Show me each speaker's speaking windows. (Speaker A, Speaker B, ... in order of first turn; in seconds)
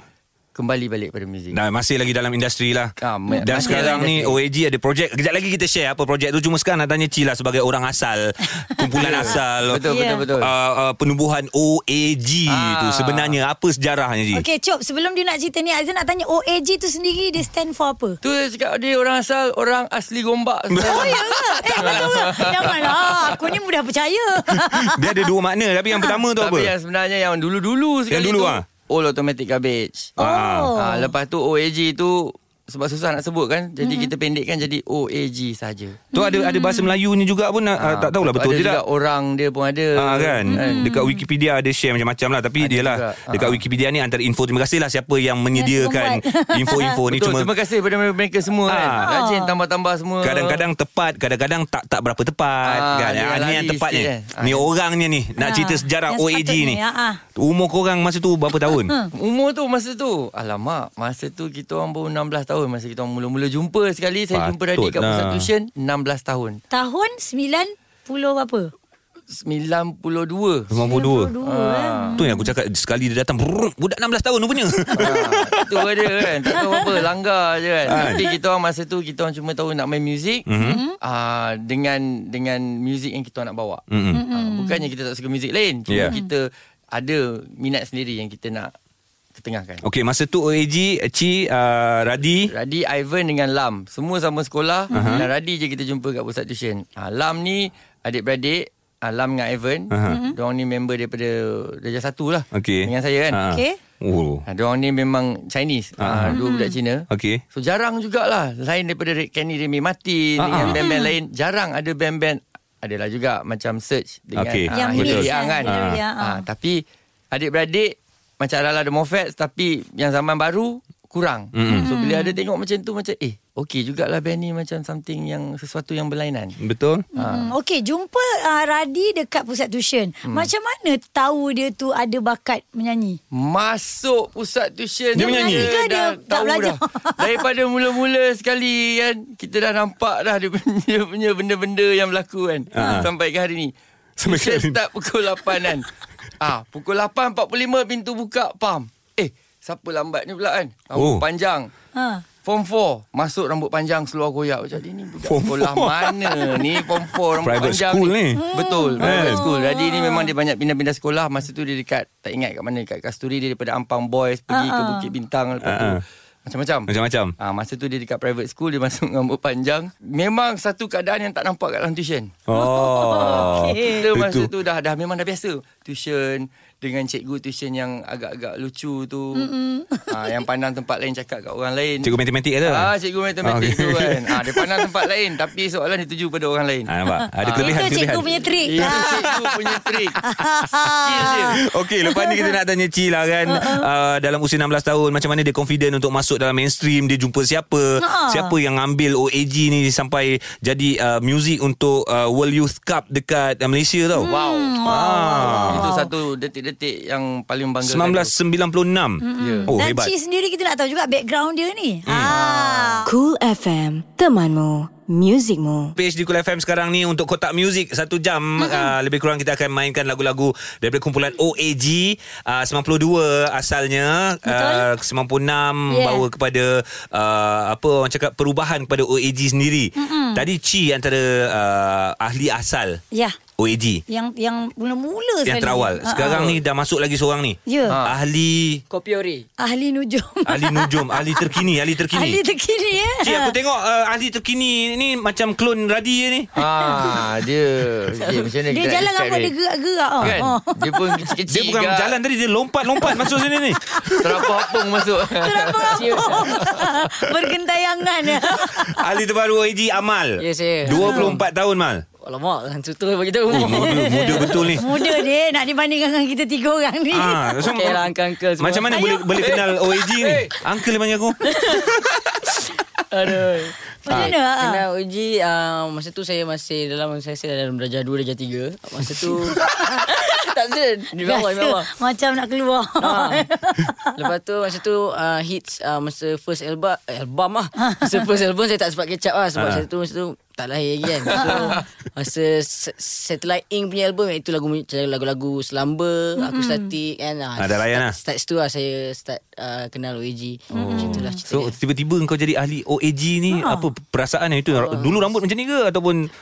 Speaker A: 0.5-1.6, 3.0-4.3, 9.0-10.5, 12.5-13.3, 18.2-23.4, 26.4-30.1, 30.8-36.0, 37.8-40.9, 42.6-43.6, 47.1-50.6, 52.6-54.7, 59.1-66.6, 69.3-70.8, 71.4-72.2, 75.0-80.5, 81.0-88.7, 89.3-89.8, 92.5-103.4, 104.5-126.6, 127.1-127.5, 133.3-145.9, 146.4-151.7, 152.4-172.4, 173.2-179.5, 180.1-182.1, 182.7-186.9, 187.4-187.9, 188.6-190.3, 190.9-191.6, 204.2-204.8, 205.4-208.3, 209.4-209.7, 212.3-213.0, 237.9-238.1, 246.6-249.5, 250.2-252.1, 254.1-256.9
Speaker B: 1.5-9.8, 10.4-14.4, 20.7-23.0, 24.5-26.7, 28.1-28.6, 30.2-30.7, 36.1-38.8, 40.0-47.5, 48.7-49.0, 50.2-56.8, 57.4-58.9, 64.3-65.5, 70.7-71.3, 72.2-76.3, 77.9-78.2, 80.5-80.8, 83.9-84.2, 85.9-86.1, 89.8-92.5, 94.9-95.2, 99.9-100.2, 102.5-104.4, 106.0-106.4, 107.1-107.4, 110.4-110.8, 114.4-116.0, 121.5-121.9, 126.6-127.0, 135.1-135.7, 142.7-143.1, 144.2-144.8, 150.9-151.2, 155.2-156.7, 157.4-158.4, 159.0-159.4, 165.6-166.0, 166.9-167.3, 172.5-174.5, 182.0-182.9, 183.4-184.8, 186.9-189.5, 191.2-204.3, 204.8-205.9, 207.8-210.1, 212.1-212.3, 216.0-233.0, 233.6-234.0, 235.4-238.8, 240.5-242.4, 243.2-246.5, 251.5-254.6, 258.5-262.0, 263.5-264.8, 267.1-272.2, 289.6-289.8, 297.6-298.1, 300.7-306.3
Speaker C: 3.3-3.9, 8.8-9.2, 9.9-10.2, 14.3-18.2, 20.8-25.2, 30.2-31.1, 33.8-34.1, 36.1-36.9, 40.5-41.2, 45.5-47.0, 49.0-49.5, 55.4-57.2, 66.7-68.7, 70.9-72.5, 80.6-81.0, 84.1-84.8, 94.9-95.3, 100.1-100.3, 103.5-103.8, 106.3-106.7, 110.6-111.1, 114.7-116.4, 121.7-122.3, 127.2-133.2, 135.1-137.2, 151.9-152.2, 158.4-160.3, 164.5-165.1, 172.5-174.1, 179.3-180.1, 187.6-189.0, 190.3-191.5, 192.1-192.5, 193.5-193.8, 198.0-198.5, 204.2-206.1, 209.2-213.1, 218.6-218.9, 224.5-224.9, 225.9-226.2, 230.0-230.4, 234.1-236.4, 237.7-237.9, 239.6-241.4, 242.1-243.5, 248.7-251.0, 255.3-259.0, 260.9-261.3, 263.6-267.5, 268.9-269.3, 274.1-274.8, 281.2-284.2, 287.8-288.1, 291.4-291.8, 296.4-296.9, 300.8-301.3, 303.5-303.8
Speaker D: 213.0-215.9
Speaker E: 238.9-239.4, 248.2-248.5, 255.9-256.7, 260.4-261.4, 262.2-265.2, 267.6-269.7, 270.2-270.5, 271.5-271.8, 273.1-281.9, 283.0-283.5, 284.2-301.8, 304.8-305.2